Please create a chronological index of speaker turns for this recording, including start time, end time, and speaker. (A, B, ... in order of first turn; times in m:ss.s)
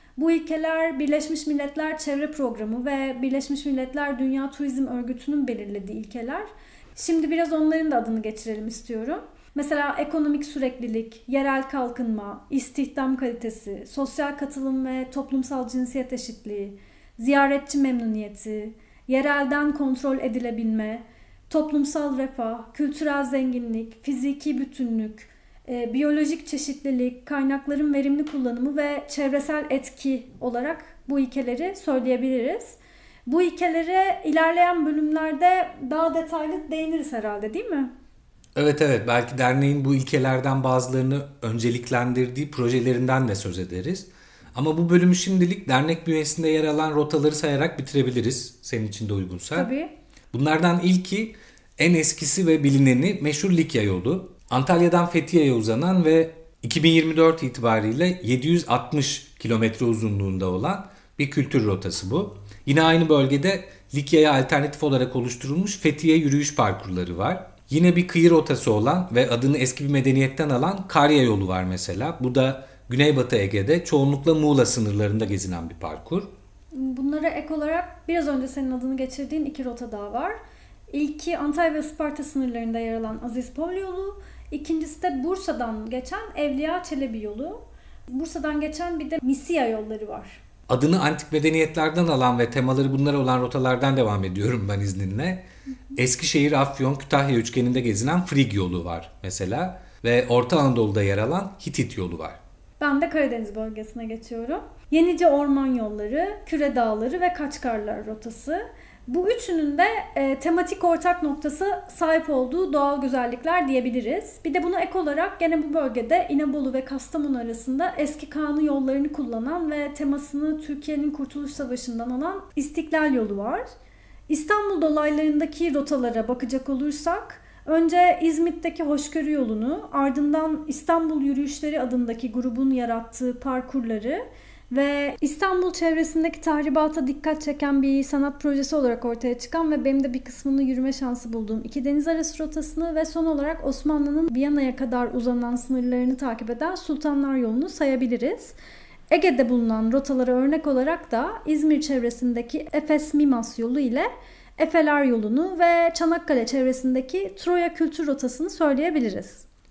0:00.2-0:37.9 A
0:38.6-0:49.7 B
0:49.5-0:49.9 A
0:50.3-1:16.3 B
1:16.7-1:20.4 A
1:20.9-1:30.4 A
1:30.7-1:35.4 B
1:36.0-1:42.4 B
1:42.8-2:03.6 A
2:04.3-2:28.6 A
2:29.1-2:39.4 A